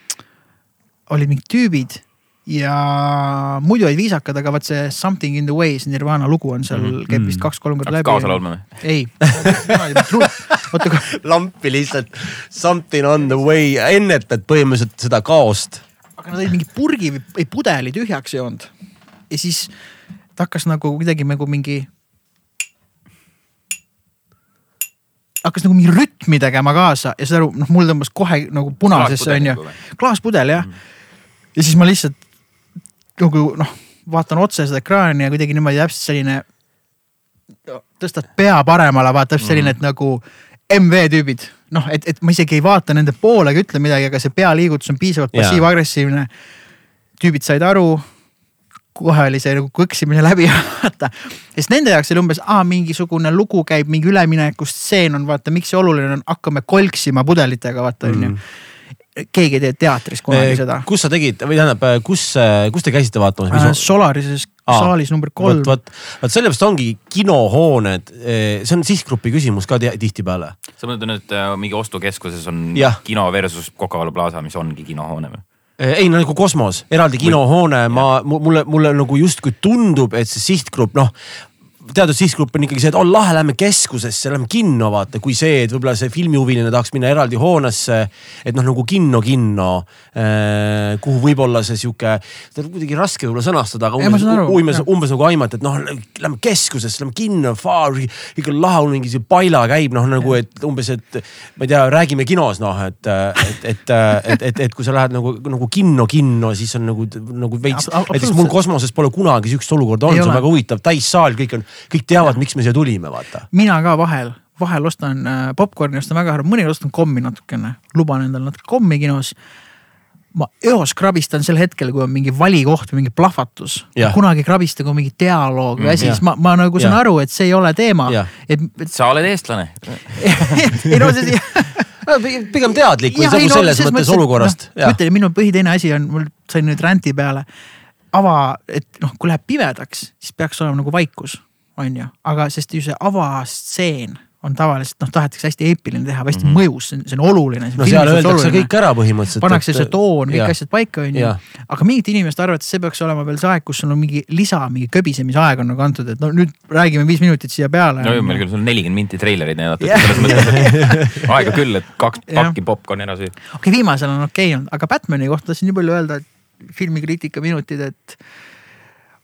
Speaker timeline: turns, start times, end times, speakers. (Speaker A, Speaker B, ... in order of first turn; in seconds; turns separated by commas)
Speaker A: 1.1-11.1, Speaker B: 6.7-7.0, Speaker C: 7.1-7.5, Speaker B: 7.8-8.8, Speaker C: 9.5-15.8, Speaker A: 16.2-18.7, Speaker A: 19.3-19.7, Speaker A: 20.4-21.9, Speaker A: 25.4-30.7, Speaker B: 28.9-29.8, Speaker A: 31.6-32.2, Speaker A: 33.2-36.5, Speaker A: 37.7-46.3, Speaker B: 39.4-39.8, Speaker C: 45.3-45.7, Speaker A: 47.2-48.1, Speaker A: 49.0-58.4, Speaker C: 58.0-58.4, Speaker A: 59.2-60.9, Speaker C: 60.3-63.9, Speaker A: 63.5-65.8, Speaker C: 64.7-70.6, Speaker B: 70.8-75.4, Speaker C: 72.8-73.0, Speaker C: 75.8-81.1, Speaker C: 81.8-113.5, Speaker A: 94.0-94.9, Speaker A: 107.7-108.6, Speaker A: 110.1-110.5, Speaker A: 113.5-119.4, Speaker A: 120.3-128.9, Speaker B: 125.8-126.1, Speaker C: 126.8-127.0, Speaker B: 128.9-130.6, Speaker A: 130.2-132.0, Speaker C: 132.0-135.0, Speaker A: 132.7-137.5, Speaker A: 138.1-148.7, Speaker B: 146.3-146.6, Speaker C: 147.8-150.6, Speaker A: 149.3-158.4, Speaker C: 151.1-151.4, Speaker B: 158.0-163.4, Speaker A: 159.8-161.3, Speaker C: 160.2-161.1, Speaker A: 162.3-162.6, Speaker A: 163.5-168.2